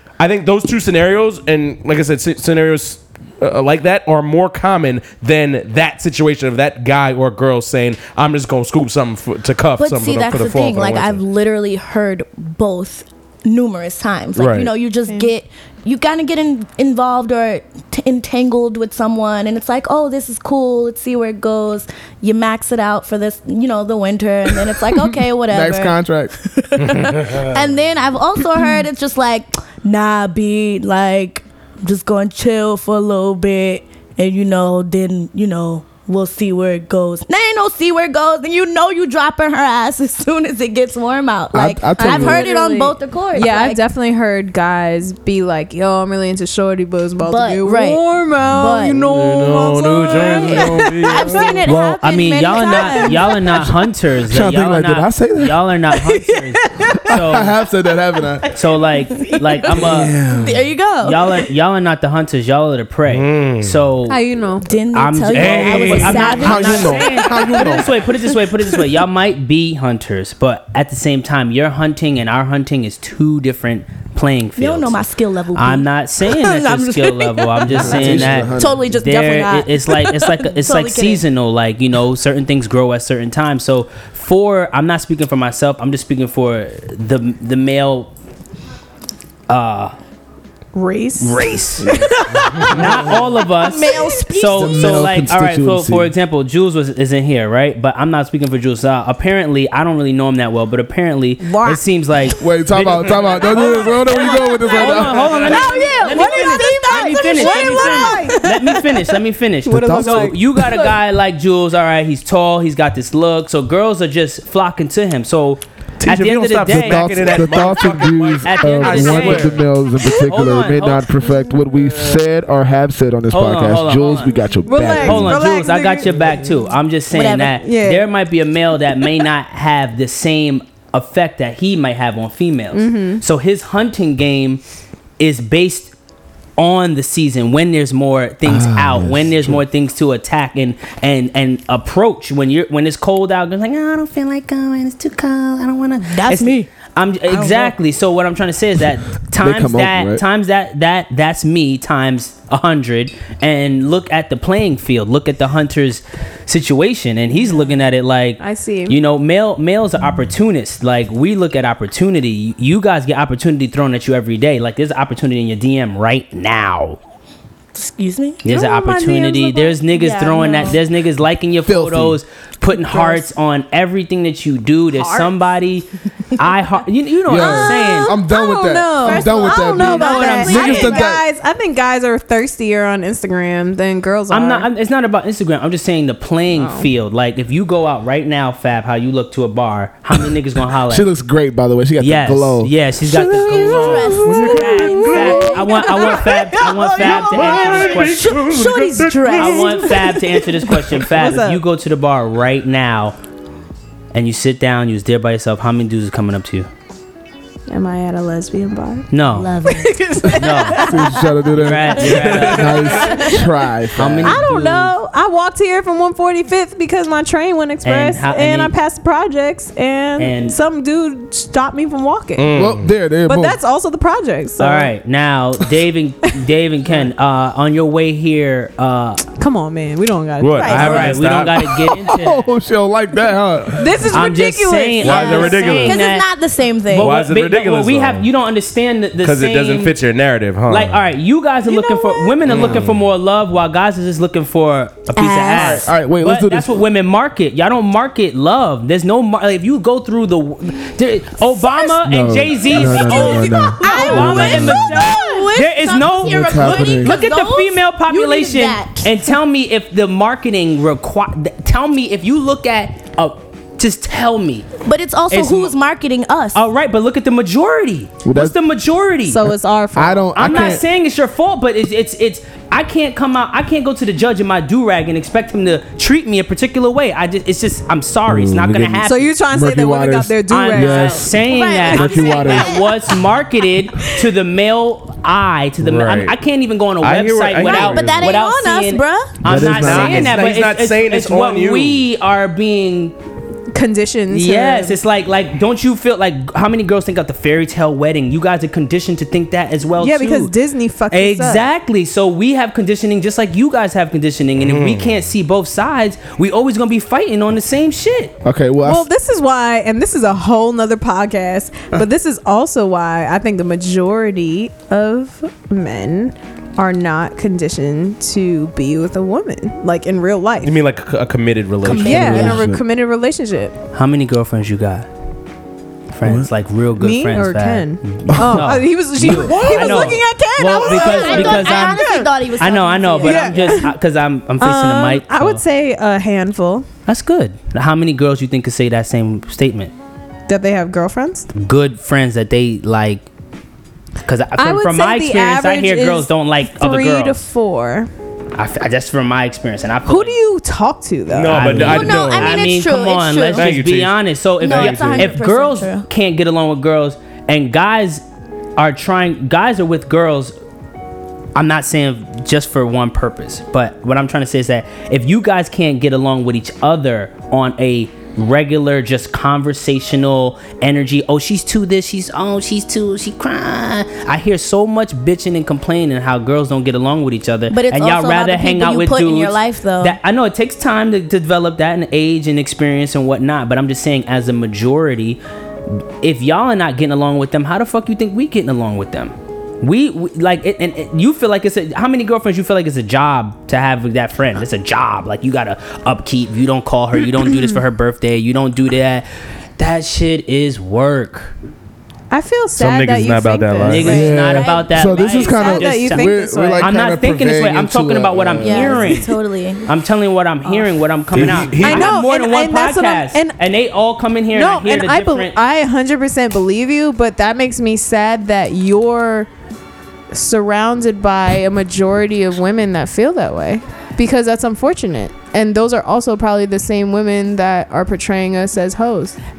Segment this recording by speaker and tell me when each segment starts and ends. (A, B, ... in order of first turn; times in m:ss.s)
0:00.2-0:11.2 A
0:09.8-0:43.8 B
0:14.4-0:14.7 A
0:24.8-0:26.4 C
0:41.5-0:42.5 C
0:42.0-0:51.6 D
0:47.2-0:49.1 B
0:49.1-0:51.6 A
0:50.1-0:53.6 B
0:51.7-0:52.0 C
0:51.7-0:57.5 E
0:52.6-0:53.4 D
0:54.3-0:55.6 C
0:55.9-0:57.1 D
0:57.1-0:58.5 C
0:58.5-1:00.2 E
0:59.2-1:01.4 B
0:59.2-0:59.8 D
0:59.8-1:00.7 C
1:01.0-1:04.2 E
1:03.1-1:03.8 A
1:04.0-1:04.7 D
1:04.6-1:08.8 B
1:04.9-1:15.0 E
1:05.3-1:06.4 A
1:06.4-1:08.0 C
1:14.6-1:21.2 B
1:15.5-1:28.1 E
1:17.7-1:19.0 C
1:29.5-1:29.9 E
1:30.7-1:32.8 D
1:31.2-1:31.9 E
1:32.6-1:33.0 C
1:32.6-1:57.6 E
1:33.5-1:35.1 B
1:34.5-1:36.1 C
1:41.4-1:41.8 B
1:42.4-1:45.4 C
1:44.4-1:49.0 B
1:45.1-1:48.8 D
1:49.6-1:50.4 D
1:49.7-1:50.8 C
1:56.0-1:59.6 A
1:56.7-2:05.4 C
1:58.4-2:01.1 E
1:58.8-1:59.4 D
2:03.3-2:04.4 E
2:04.7-2:06.1 D
2:04.9-2:14.6 E
2:07.1-2:07.6 B
2:07.5-2:08.1 D
2:12.7-2:13.2 D
2:15.2-2:15.9 E
2:16.6-2:47.0 E
2:18.4-2:19.6 C
2:26.0-2:26.7 B
2:27.3-2:27.7 B
2:29.4-2:30.2 C
2:38.4-2:39.0 D
2:47.7-2:48.4 B
2:48.4-2:55.8 E
2:48.5-2:49.8 D
2:49.9-2:50.8 B
2:51.6-2:52.2 C
2:54.9-2:55.4 D
2:56.4-2:58.1 E
2:57.2-3:01.2 C
2:57.3-3:04.7 D
2:59.0-3:01.1 B
2:59.9-3:00.8 E
3:04.3-3:11.1 E
3:06.5-3:06.9 D
3:10.9-3:15.5 C
3:12.0-3:18.4 E
3:13.2-3:16.1 B
3:13.9-3:14.6 A
3:14.3-3:17.9 D
3:17.0-3:20.9 B
3:17.0-3:19.6 A
3:19.2-3:23.2 E
3:19.3-3:21.6 D
3:24.1-3:26.7 E
3:27.7-3:29.1 D
3:29.1-3:29.5 E
3:29.3-3:30.9 B
3:29.6-3:31.2 D
3:30.3-3:30.9 E
3:30.8-3:34.5 C
3:31.5-3:33.0 E
3:32.0-3:33.4 B
3:32.0-3:33.2 A
3:33.9-3:34.9 E
3:34.2-3:42.5 D
3:37.8-3:38.7 E
3:40.2-3:40.6 E
3:42.4-3:42.9 A
3:42.5-3:43.6 C
3:43.3-3:44.9 D
3:44.6-3:49.2 E
3:49.4-3:51.2 D
3:50.4-3:51.7 A
3:50.6-3:51.2 B
3:50.7-3:52.4 E
3:51.6-3:54.1 C
3:53.8-3:56.0 D
3:54.1-3:56.2 E
3:55.0-3:56.0 A
3:55.8-3:57.2 B
3:56.9-3:59.9 E
3:56.9-3:58.3 A
3:59.2-4:01.0 A
4:00.7-4:24.6 E
4:01.7-4:02.4 B
4:02.4-4:03.0 A
4:02.5-4:02.9 C
4:05.2-4:05.8 B
4:05.5-4:06.7 C
4:11.4-4:19.4 B
4:12.0-4:15.2 C
4:13.8-4:14.3 D
4:16.2-4:17.2 C
4:24.8-4:26.6 B
4:25.3-4:25.7 E
4:26.5-4:29.5 E
4:28.2-4:28.6 C
4:29.3-4:30.3 D
4:29.9-4:30.8 C
4:30.3-4:39.3 E
4:38.2-4:42.9 C
4:39.0-4:41.2 D
4:40.5-4:53.1 E
4:41.4-4:43.1 B
4:45.8-4:46.4 A
4:47.0-4:48.1 A
4:47.6-4:49.4 B
4:49.4-4:50.4 C
4:49.5-4:52.0 A
4:49.9-4:50.3 D
4:53.7-4:55.0 D
4:54.3-5:00.5 E
5:00.0-5:01.6 D
5:01.1-5:08.3 E
5:04.6-5:05.2 A
5:08.4-5:09.1 C
5:08.8-5:20.7 D
5:20.6-5:22.5 A
5:21.8-5:22.6 E
5:21.8-5:22.8 C
5:21.9-5:23.8 D
5:23.9-5:25.1 E
5:26.1-5:35.6 E
5:26.2-5:26.5 C
5:27.0-5:32.3 D
5:28.3-5:29.6 C
5:29.3-5:33.6 B
5:33.2-5:33.9 D
5:34.6-5:36.9 D
5:37.0-5:39.9 E
5:40.5-5:41.5 D
5:41.5-5:43.2 E
5:44.2-5:47.4 E
5:44.6-5:48.1 D
5:48.5-5:50.4 E
5:50.0-5:51.8 D
5:51.3-5:52.6 A
5:51.5-5:58.2 E
5:51.8-5:53.8 B
5:53.5-5:54.2 A
5:54.6-5:56.1 B
5:54.7-5:55.2 A
5:58.8-6:00.5 E
6:01.5-6:25.4 E
6:17.7-6:20.2 B
6:26.2-6:39.2 E
6:37.5-6:37.8 D
6:39.8-6:41.5 E
6:42.3-6:44.2 D
6:42.8-6:44.1 A
6:43.8-6:55.5 E
6:44.0-6:45.8 B
6:44.0-6:49.2 C
6:45.3-6:47.0 D
6:48.6-6:49.9 B
6:51.3-6:52.1 C
6:51.3-6:51.6 A
6:51.8-6:53.6 D
6:54.5-6:59.5 D
7:00.3-7:09.4 D